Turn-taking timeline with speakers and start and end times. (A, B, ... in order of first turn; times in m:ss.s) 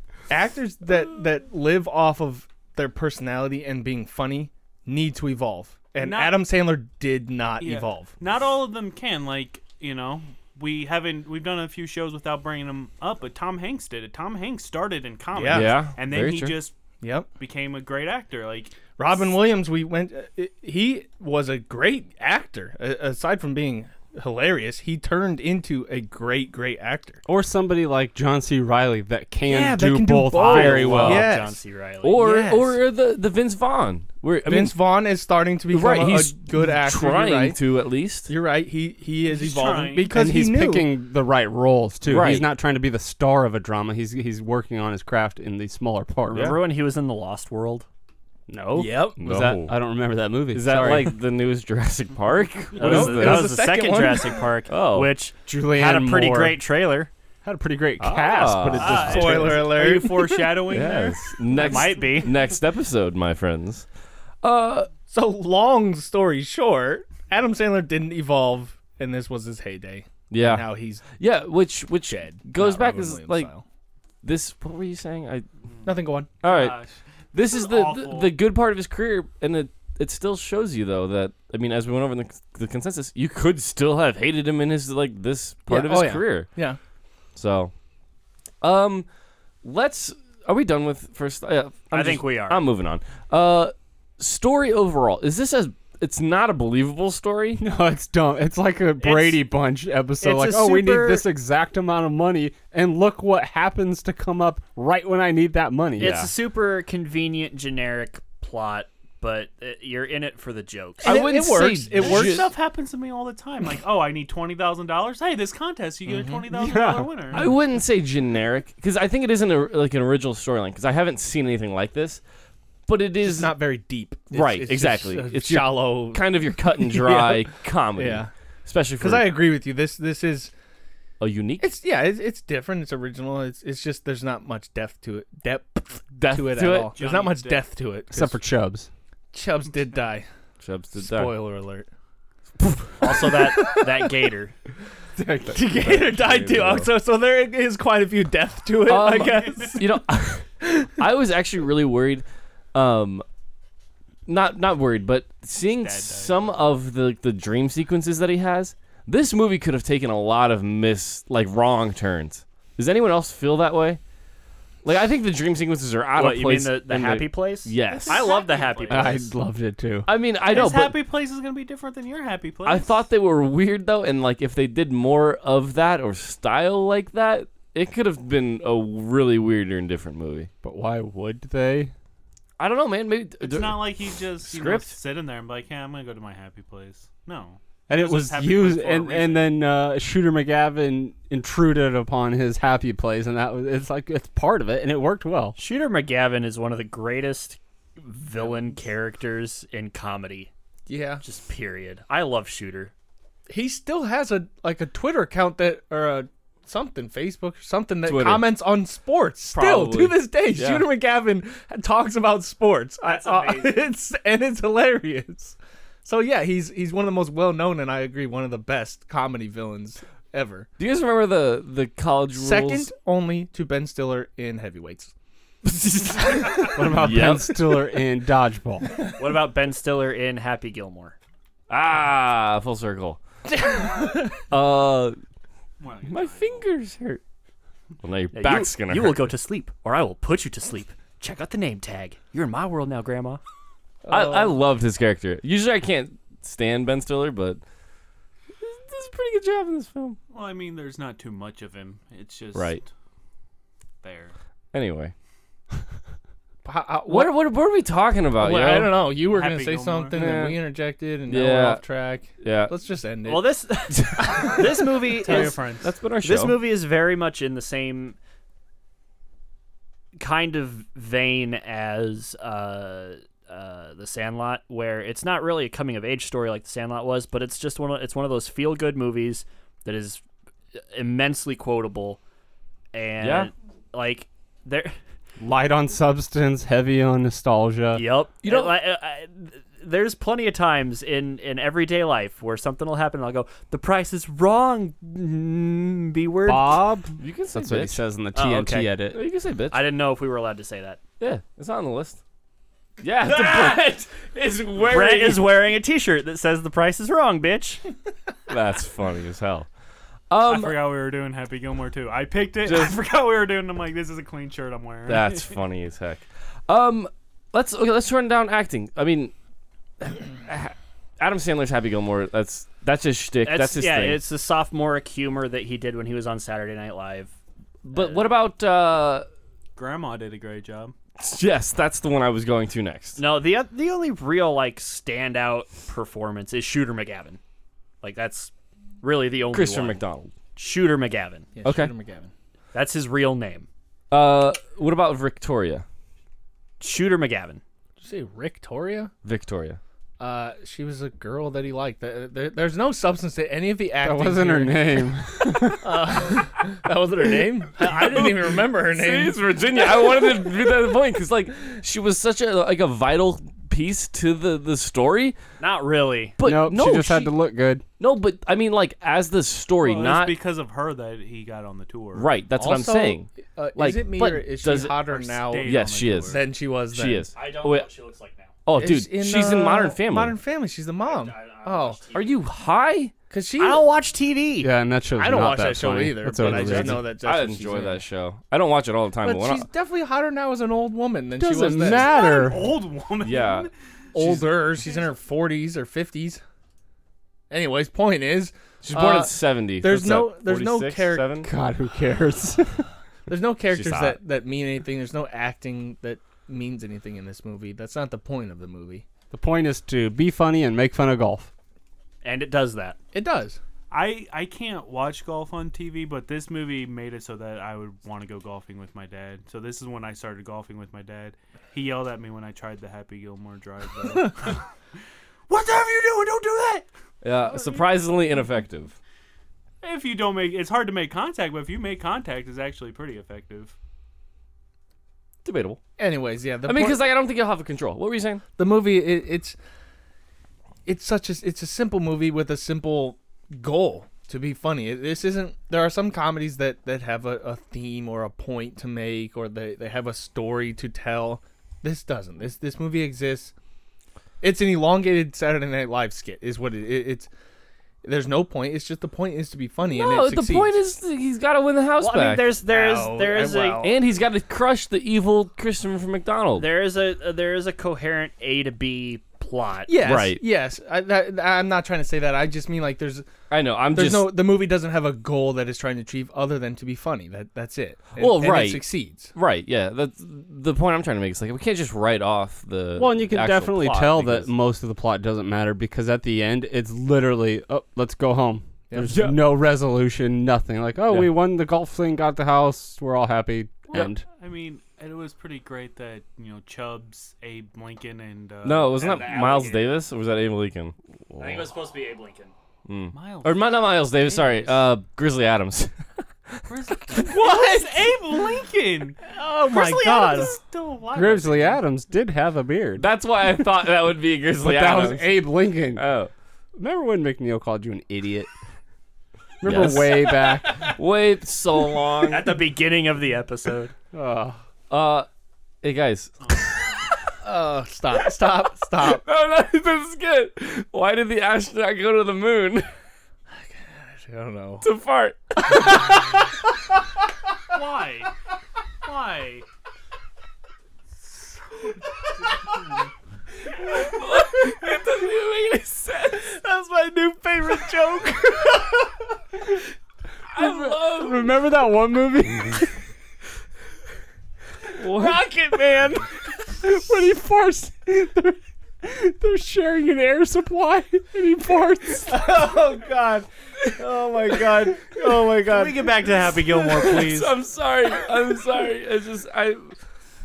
0:00.3-0:08.1 A
0:06.0-0:06.4 B
0:07.6-0:16.7 B
0:15.3-0:15.8 A
0:15.5-0:16.6 C
0:17.0-0:17.3 A
0:17.4-0:18.8 B
0:19.0-0:27.2 A
0:27.2-0:31.3 D
0:29.4-0:31.6 A
0:30.3-0:32.2 E
0:32.0-0:34.8 C
0:32.1-0:32.8 A
0:34.4-0:37.6 A
0:35.7-0:38.3 C
0:38.3-0:41.0 A
0:39.2-0:40.1 B
0:40.1-0:46.6 D
0:42.0-0:42.5 C
0:46.3-0:46.6 C
0:46.3-0:47.9 E
0:48.5-0:51.1 D
0:48.7-0:49.2 A
0:49.2-0:49.7 C
0:50.5-0:53.6 C
0:52.8-0:54.5 A
0:52.8-0:57.1 E
0:54.7-0:55.1 C
0:55.4-0:56.6 D
0:57.4-0:59.7 D
0:58.0-0:59.2 C
0:58.8-1:02.0 B
0:58.8-1:00.6 A
1:00.7-1:03.9 C
1:01.6-1:02.4 E
1:04.4-1:04.9 C
1:05.1-1:11.0 A
1:10.3-1:13.5 C
1:12.0-1:13.6 A
1:14.2-1:15.4 C
1:15.8-1:16.3 A
1:16.4-1:16.8 C
1:16.4-1:18.3 B
1:17.3-1:26.5 C
1:25.7-1:26.8 A
1:27.3-1:27.7 C
1:28.6-1:29.0 C
1:29.6-1:37.6 C
1:31.9-1:32.6 E
1:37.6-1:46.2 D
1:39.0-1:39.4 B
1:40.2-1:41.3 E
1:46.0-1:46.3 C
1:46.0-1:51.1 E
1:51.0-1:52.5 C
1:51.0-1:52.5 A
1:51.9-1:57.5 B
1:56.1-1:56.4 A
1:56.5-1:57.1 D
1:57.3-2:02.2 C
2:02.9-2:03.6 C
2:03.2-2:08.3 A
2:04.3-2:09.4 C
2:09.0-2:10.5 A
2:11.2-2:11.7 C
2:11.6-2:18.4 A
2:16.1-2:17.0 C
2:16.7-2:17.7 B
2:18.1-2:18.9 D
2:19.3-2:20.2 A
2:20.6-2:21.4 C
2:21.0-2:21.9 A
2:23.0-2:24.5 E
2:23.0-2:24.2 A
2:25.4-2:26.9 C
2:25.5-2:30.0 A
2:28.8-2:33.2 C
2:30.6-2:30.9 A
2:34.3-2:44.0 C
2:35.7-2:36.6 B
2:44.8-2:48.3 C
2:46.2-2:49.3 E
2:48.0-2:49.1 B
2:48.9-2:50.1 D
2:50.1-2:51.0 C
2:50.5-2:52.9 B
2:52.6-3:00.5 C
3:00.6-3:01.9 D
3:02.6-3:05.0 C
3:03.4-3:09.5 B
3:07.9-3:15.6 D
3:15.6-3:20.5 E
3:20.9-3:21.2 A
3:21.2-3:22.9 E
3:23.5-3:40.7 A
3:28.0-3:28.5 C
3:29.5-3:30.9 C
3:33.0-3:33.8 E
3:40.8-3:42.9 C
3:42.3-3:45.1 A
3:45.6-3:47.1 A
3:46.7-3:49.0 D
3:46.9-3:47.6 C
3:49.2-3:51.2 E
3:51.7-3:53.2 C
3:53.6-3:54.4 A
3:54.5-3:55.2 C
3:55.8-3:56.6 B
3:56.0-3:57.2 C
3:58.0-3:59.3 C
3:58.3-4:03.4 E
4:04.0-4:04.6 A
4:04.1-4:07.6 C
4:08.6-4:10.2 C
4:10.3-4:12.9 B
4:12.5-4:12.8 C
4:14.0-4:14.3 B
4:14.7-4:15.1 C
4:16.6-4:17.4 A
4:17.1-4:19.1 C
4:18.4-4:23.5 A
4:19.2-4:20.2 B
4:20.1-4:20.6 C
4:21.3-4:21.8 C
4:22.4-4:22.7 C
4:23.2-4:25.6 E
4:24.2-4:25.5 A
4:25.2-4:25.9 B
4:25.3-4:26.6 C
4:26.2-4:28.2 E
4:30.2-4:40.2 E
4:40.8-4:42.2 E
4:42.9-4:45.0 E
4:43.2-4:43.5 C
4:45.4-4:48.0 D
4:47.9-4:56.9 E
4:48.4-4:48.8 C
4:56.4-4:59.2 D
4:57.2-4:58.0 C
4:58.3-4:58.9 E
4:59.1-4:59.9 C
4:59.7-5:01.0 E
5:01.2-5:02.2 C
5:03.0-5:05.5 C
5:04.8-5:07.8 E
5:08.5-5:09.7 C
5:10.3-5:10.8 C
5:10.4-5:15.5 B
5:12.6-5:13.0 C
5:15.0-5:19.3 C
5:20.0-5:24.2 C
5:23.4-5:27.3 E
5:27.8-5:29.3 C
5:29.8-5:30.9 B
5:31.2-5:33.2 C
5:33.2-5:37.4 E
5:38.0-5:40.0 E
5:39.5-5:40.3 C
5:40.6-5:41.5 E
5:41.6-5:42.3 A
5:41.6-5:41.9 C
5:42.7-5:43.7 E
5:44.1-5:45.8 C
5:46.8-5:47.6 E
5:48.0-5:49.1 A
5:49.2-5:49.8 C
5:50.2-5:59.4 A
5:54.0-5:56.0 D
5:57.8-6:05.4 C
6:05.6-6:06.4 E
6:06.4-6:07.3 C
6:06.4-6:07.8 D
6:08.0-6:10.4 C
6:09.8-6:12.3 B
6:12.1-6:15.1 C
6:12.6-6:17.3 A
6:15.1-6:16.4 B
6:15.6-6:17.9 C
6:17.3-6:18.5 E
6:18.6-6:20.4 C
6:18.7-6:22.0 A
6:21.0-6:22.4 E
6:22.1-6:23.1 C
6:23.3-6:23.9 A
6:23.6-6:24.7 E
6:24.6-6:27.1 D
6:25.2-6:28.0 A
6:26.4-6:29.7 C
6:29.2-6:32.4 A
6:31.4-6:32.8 D
6:32.1-6:35.0 B
6:33.2-6:33.7 C
6:34.1-6:36.4 A
6:37.5-6:41.4 A
6:38.8-6:41.5 C
6:41.4-6:42.8 D
6:43.3-6:49.0 A
6:43.7-6:44.2 C
6:49.3-6:51.5 D
6:52.2-6:53.0 E
6:53.1-6:53.6 A
6:53.9-7:04.7 B
7:05.5-7:06.8 B
7:07.2-7:09.0 C
7:07.5-7:07.8 B
7:09.8-7:13.7 B
7:15.4-7:15.8 C
7:16.0-7:17.0 A
7:16.6-7:18.4 C
7:18.6-7:19.6 A
7:20.8-7:33.5 A
7:34.4-7:37.3 A
7:38.0-7:40.8 A
7:39.9-7:42.6 C
7:42.0-7:43.9 E
7:42.7-7:44.0 A
7:43.8-7:46.7 C
7:46.6-7:49.9 E
7:49.9-7:53.2 A
7:50.0-7:50.4 C
7:53.5-7:54.4 C
7:53.9-7:59.3 A
7:58.2-8:04.5 C
8:03.0-8:14.2 D
8:08.9-8:09.2 A
8:09.1-8:09.4 C
8:13.9-8:19.1 B
8:18.6-8:21.6 C
8:19.0-8:19.9 E
8:21.4-8:22.5 E
8:22.8-8:25.9 C
8:23.1-8:24.7 B
8:26.7-8:31.8 B
8:27.4-8:27.7 A
8:29.4-8:30.5 E
8:29.5-8:30.6 A
8:31.1-8:33.0 D
8:33.0-8:36.3 C
8:34.6-8:36.0 D
8:36.8-8:38.5 D
8:39.6-8:40.9 D
8:39.6-8:42.6 C
8:42.2-8:43.9 E
8:44.1-8:44.6 D
8:44.9-8:45.3 C
8:45.8-8:46.6 C
8:46.4-8:46.9 B
8:47.4-8:49.2 A
8:48.4-8:52.9 C
8:53.5-8:54.9 A
8:54.8-8:56.3 C
8:55.7-8:56.4 A
8:57.7-8:58.3 B
8:59.0-8:59.6 B
9:03.8-9:06.6 C
9:06.6-9:09.1 A
9:10.5-9:11.5 C
9:10.6-9:12.9 D
9:15.0-9:15.4 C
9:15.0-9:16.3 A
9:16.8-9:22.4 D
9:22.3-9:26.5 A
9:24.6-9:25.5 C
9:25.7-9:27.5 B
9:26.8-9:29.9 C